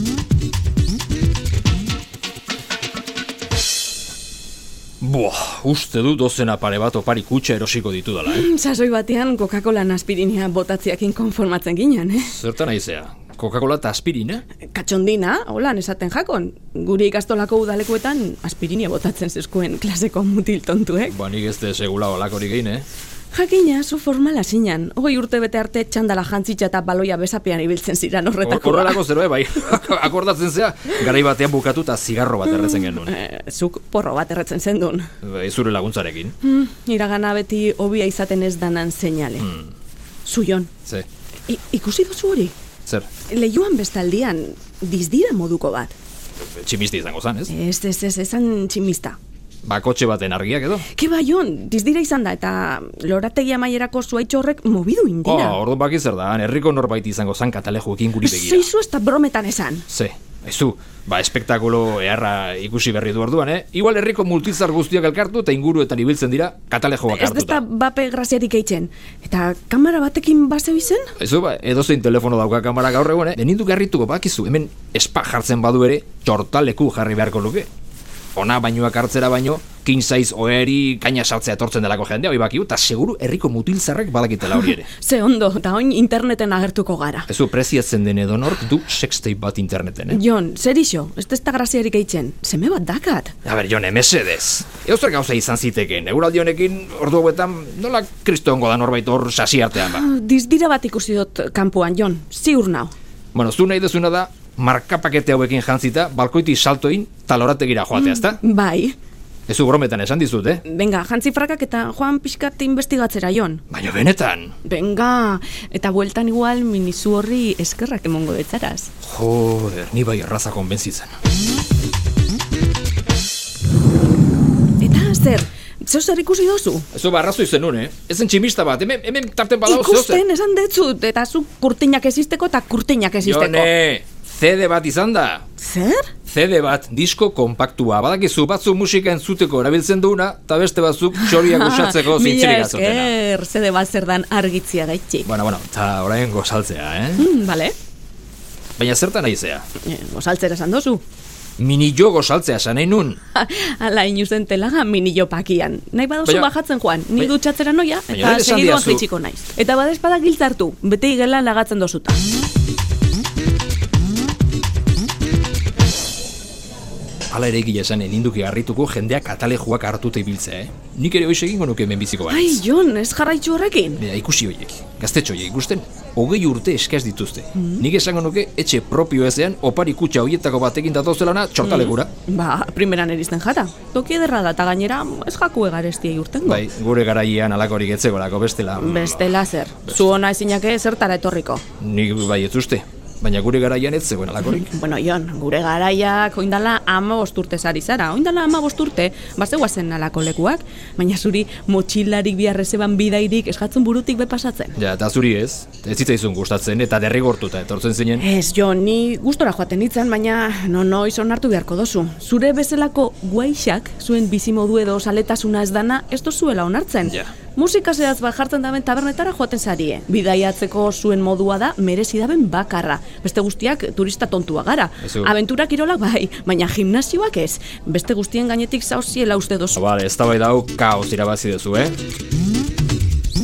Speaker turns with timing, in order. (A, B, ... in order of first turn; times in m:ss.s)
0:05.0-0:08.5 A
0:08.3-0:12.3 B
0:12.2-0:14.4 A
0:14.7-0:21.2 B
0:21.1-0:22.8 A
0:23.3-0:29.0 B
0:28.4-0:33.1 A
0:32.5-0:35.1 B
0:35.2-0:36.3 A
0:36.4-0:39.5 B
0:39.4-0:39.7 A
0:40.2-0:40.7 B
0:41.5-0:42.5 B
0:43.3-0:45.9 B
0:46.5-0:47.5 A
0:47.5-0:49.2 B
0:49.6-0:50.8 A
0:50.9-0:55.6 B
0:55.2-0:58.7 A
0:58.2-0:59.8 B
0:59.9-1:07.6 A
1:07.1-1:11.1 B
1:11.2-1:17.7 A
1:18.3-1:24.9 A
1:24.9-1:27.3 B
1:27.3-1:30.2 A
1:30.1-1:33.3 B
1:33.4-1:40.0 A
1:39.8-1:42.9 B
1:43.3-1:48.4 A
1:47.9-1:49.0 B
1:49.5-1:50.6 A
1:50.6-1:53.6 B
1:53.7-1:54.5 A
1:54.6-1:58.9 B
1:59.0-2:01.1 A
2:04.8-2:06.9 B
2:06.9-2:10.2 A
2:09.6-2:13.7 B
2:13.2-2:15.4 A
2:15.6-2:16.1 B
2:16.3-2:23.1 A
2:21.1-2:25.3 B
2:25.2-2:27.3 A
2:27.2-2:27.7 B
2:28.8-2:29.6 A
2:29.8-2:31.0 B
2:31.6-2:33.2 A
2:33.3-2:42.2 B
2:36.2-2:36.5 A
2:38.1-2:39.0 A
2:47.3-2:52.6 A
2:52.3-2:54.0 B
2:54.0-3:02.1 A
2:57.5-2:57.8 B
3:01.6-3:06.6 B
3:06.4-3:09.3 A
3:08.8-3:11.6 B
3:11.8-3:14.7 A
3:14.4-3:24.8 B
3:24.8-3:28.2 A
3:28.2-3:49.8 B
3:37.0-3:37.3 A
3:45.0-3:45.3 A
3:49.8-3:52.0 A